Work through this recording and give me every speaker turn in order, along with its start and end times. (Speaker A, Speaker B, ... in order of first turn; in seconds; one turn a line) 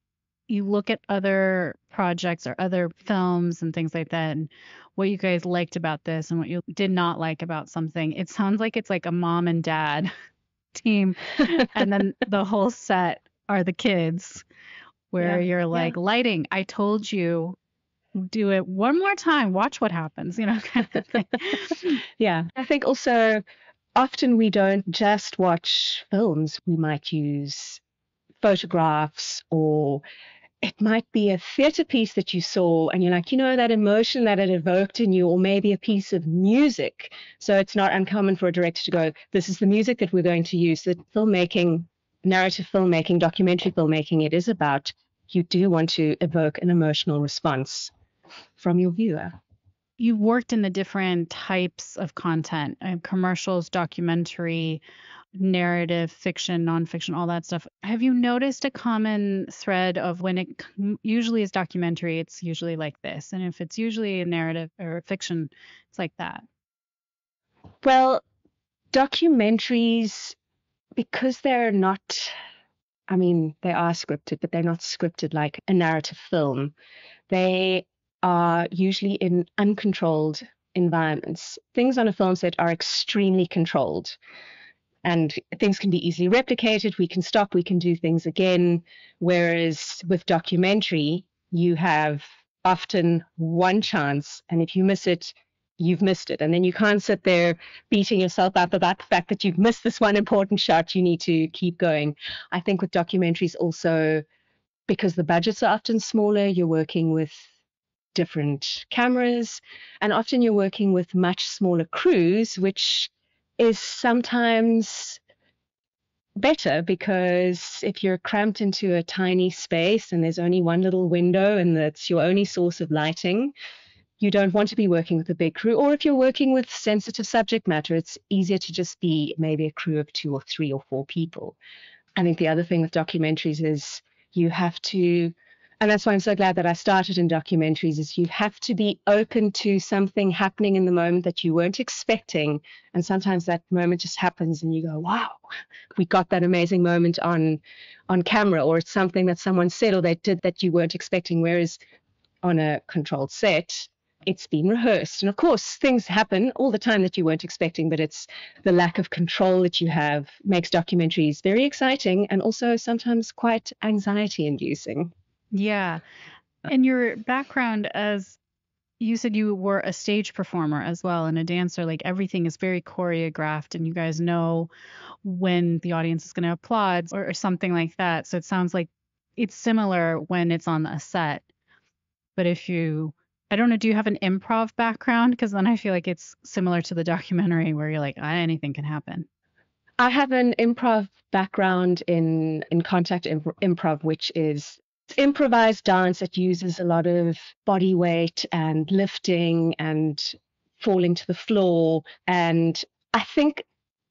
Speaker A: 0.5-10.1
Speaker A: 10.7-14.4
Speaker A: 15.1-17.6
Speaker B: 15.2-15.9
Speaker A: 18.1-21.9
Speaker B: 22.2-23.4
Speaker B: 23.9-27.8
Speaker B: 28.4-30.0
Speaker B: 30.6-47.9
Speaker B: 48.6-49.4
Speaker A: 50.0-54.8
Speaker A: 55.3-66.4
Speaker B: 67.8-68.2
Speaker B: 68.9-70.3
Speaker B: 70.9-72.3
Speaker B: 73.1-76.7
Speaker B: 77.3-84.2
Speaker B: 85.0-104.2
Speaker B: 104.9-107.5
Speaker B: 108.1-115.2
Speaker B: 116.3-123.5
Speaker B: 124.2-131.6
Speaker B: 132.2-151.8
Speaker B: 152.4-165.1
Speaker A: 165.5-166.0
Speaker A: 166.6-168.4
Speaker A: 169.0-174.7
Speaker A: 175.2-181.4
Speaker A: 182.3-189.2
Speaker B: 190.0-203.6